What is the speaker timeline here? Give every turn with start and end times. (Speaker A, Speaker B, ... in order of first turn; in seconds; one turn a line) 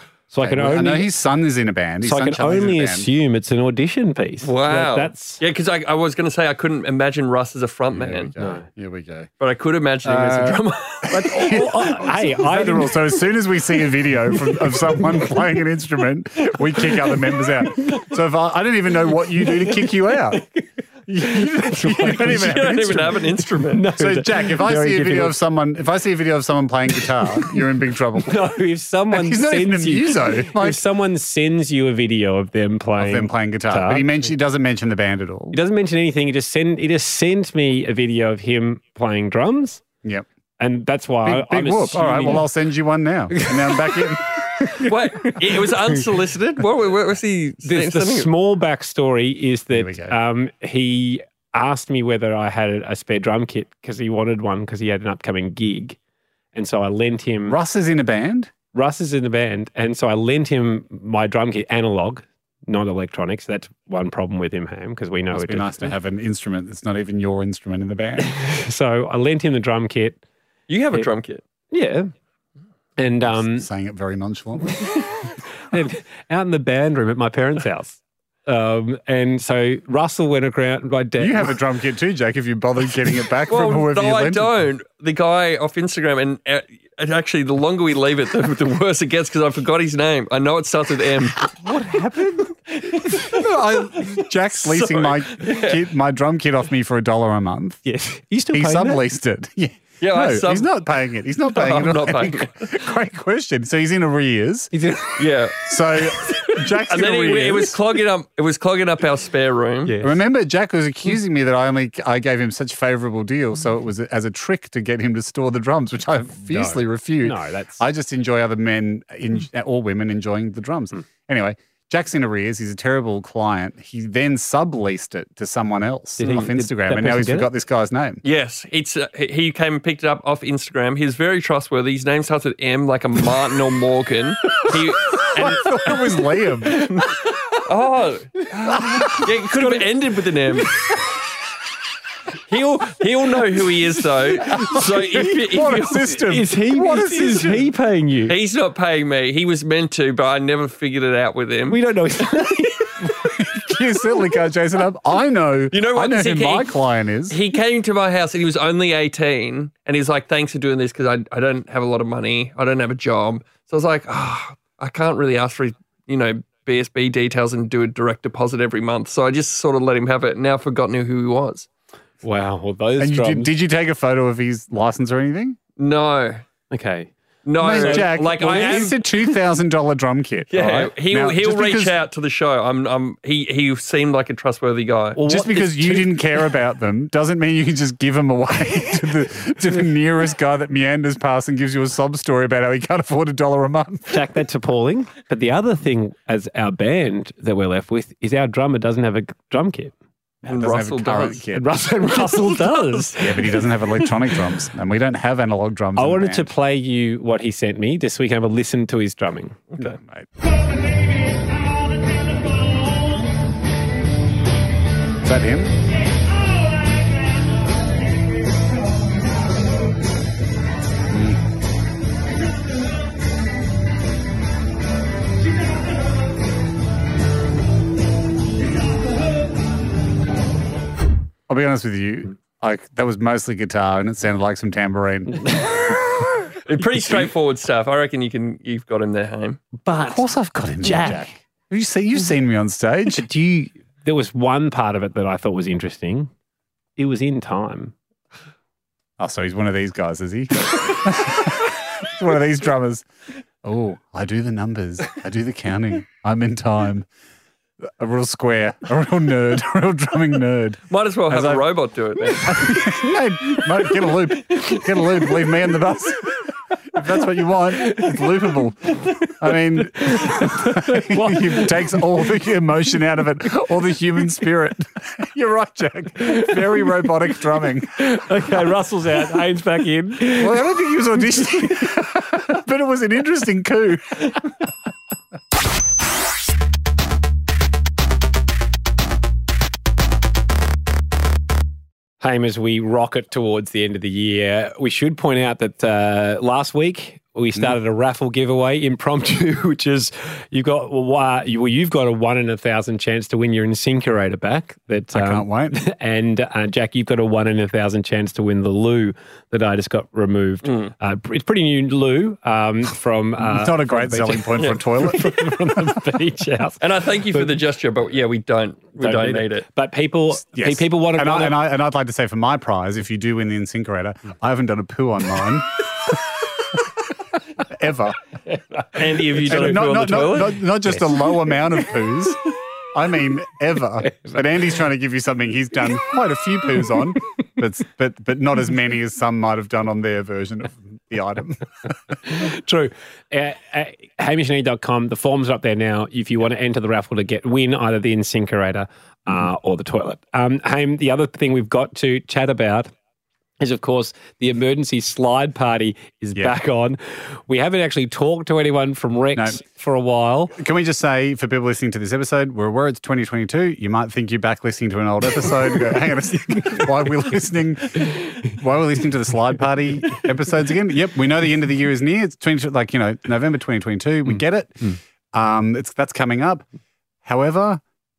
Speaker A: 0.3-1.1
Speaker B: 0.4-3.1
Speaker A: 2.0-5.4
Speaker C: 4.4-8.3
Speaker B: 7.9-9.3
Speaker A: 8.4-8.6
Speaker C: 9.4-10.6
Speaker B: 10.0-10.6
Speaker A: 10.4-13.3
Speaker B: 11.1-20.4
Speaker A: 14.5-15.3
Speaker A: 16.5-18.0
Speaker A: 19.4-20.6
Speaker B: 21.1-28.4
Speaker A: 21.2-22.9
Speaker C: 22.3-23.9
Speaker A: 23.7-25.4
Speaker A: 28.2-34.1
Speaker B: 29.1-30.8
Speaker B: 33.0-35.6
Speaker A: 35.5-39.8
Speaker A: 40.6-42.5
Speaker B: 41.2-44.7
Speaker A: 43.3-44.1
Speaker A: 44.6-45.5
Speaker C: 44.8-48.3
Speaker A: 47.6-56.0
Speaker B: 49.7-50.1
Speaker A: 56.5-57.6
Speaker B: 57.5-58.5
Speaker A: 58.7-65.9
Speaker B: 65.3-68.3
Speaker A: 68.2-70.2
Speaker C: 70.7-71.4
Speaker A: 71.7-72.1
Speaker A: 73.0-73.7
Speaker B: 73.2-75.0
Speaker A: 75.7-81.5
Speaker B: 81.2-84.5
Speaker C: 83.5-91.5
Speaker A: 91.6-93.3
Speaker B: 93.3-97.8
Speaker C: 94.6-95.8
Speaker A: 97.8-99.0
Speaker B: 98.5-104.7
Speaker C: 100.0-100.7
Speaker C: 101.5-102.6
Speaker A: 104.7-105.3
Speaker C: 105.2-105.6
Speaker B: 105.6-107.8
Speaker C: 106.9-109.9
Speaker A: 109.8-110.2
Speaker B: 110.0-128.2
Speaker A: 116.5-117.8
Speaker A: 126.2-127.5
Speaker C: 128.2-135.7
Speaker B: 135.3-136.9
Speaker C: 137.7-140.7
Speaker B: 138.7-139.2
Speaker A: 139.0-139.8
Speaker A: 142.5-148.3
Speaker C: 142.5-146.0
Speaker B: 144.5-147.7
Speaker C: 148.3-151.8
Speaker A: 151.7-153.1
Speaker B: 153.2-157.4
Speaker C: 155.7-156.7
Speaker C: 157.3-171.7
Speaker A: 172.2-173.5
Speaker B: 173.0-175.6
Speaker C: 175.8-176.4
Speaker A: 176.7-178.9
Speaker C: 177.4-179.0
Speaker B: 177.6-182.0
Speaker C: 180.5-185.2
Speaker A: 185.2-186.4
Speaker B: 185.2-194.2
Speaker A: 194.1-199.9
Speaker B: 200.4-201.7
Speaker C: 200.4-201.4
Speaker A: 201.5-203.6
Speaker B: 203.2-206.5
Speaker A: 205.9-209.6
Speaker B: 209.8-210.3
Speaker B: 215.2-215.8
Speaker B: 221.1-221.4
Speaker B: 231.5-235.7
Speaker C: 236.7-239.6
Speaker A: 239.8-240.2
Speaker B: 239.9-243.2
Speaker A: 240.8-241.2
Speaker A: 243.1-246.3
Speaker A: 247.0-247.9
Speaker B: 249.2-253.1
Speaker B: 253.6-257.1
Speaker B: 258.0-261.6
Speaker C: 260.9-262.6
Speaker B: 262.4-266.4
Speaker B: 266.9-278.5
Speaker A: 267.8-268.2
Speaker A: 269.9-272.0
Speaker A: 277.9-280.6
Speaker B: 280.4-284.6
Speaker A: 292.2-316.8
Speaker B: 305.1-305.8
Speaker C: 310.6-310.9
Speaker B: 313.4-316.0
Speaker C: 316.8-319.6
Speaker A: 319.0-321.6
Speaker B: 320.5-326.2
Speaker B: 327.6-328.2
Speaker C: 328.9-330.6
Speaker B: 329.4-341.9
Speaker A: 342.2-352.9
Speaker A: 353.6-360.5
Speaker B: 359.3-359.6
Speaker B: 360.5-376.6
Speaker B: 377.2-377.8